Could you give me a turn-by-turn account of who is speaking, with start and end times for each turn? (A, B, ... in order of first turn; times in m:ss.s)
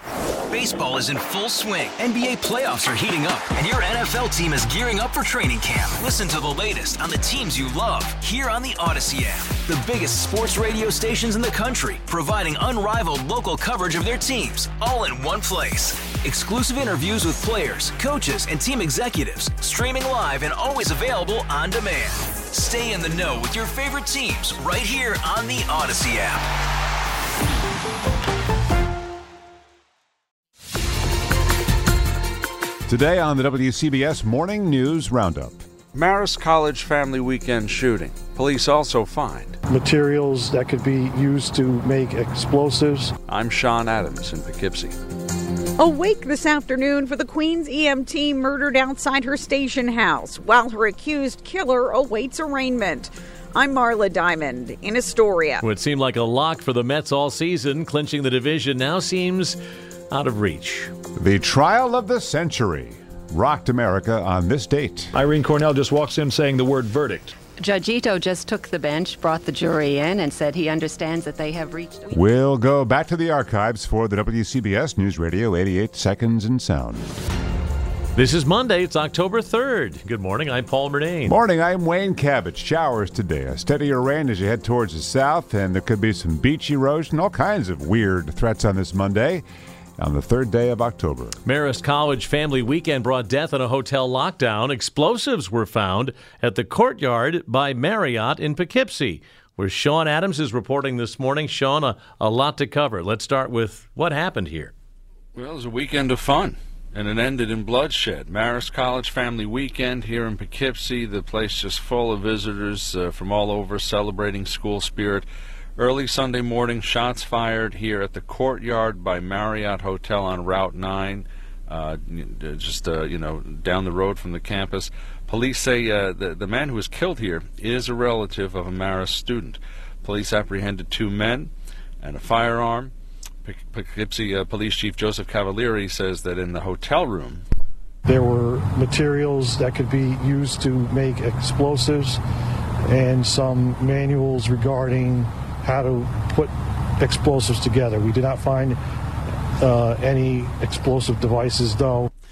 0:00.5-0:26.4 A
0:32.9-0:35.6 B
0:35.9-0:39.6 C
0:39.7-0:43.1 D
0:43.3-0:45.0 C
0:45.8-0:55.6 E
0:55.6-0:59.6 F
1:00.1-1:00.9 F
1:01.2-1:05.1 B
1:05.1-1:07.3 G
1:07.6-1:12.1 H
1:12.1-1:17.0 B
1:18.1-1:21.4 F
1:21.3-1:29.4 B
1:30.0-1:31.4 B
1:31.4-1:44.7 F
1:45.4-1:55.3 C
1:55.8-2:12.9 C
2:13.4-2:17.4 C
2:18.0-2:22.2 D
2:22.9-2:28.8 D
2:29.6-2:32.1 D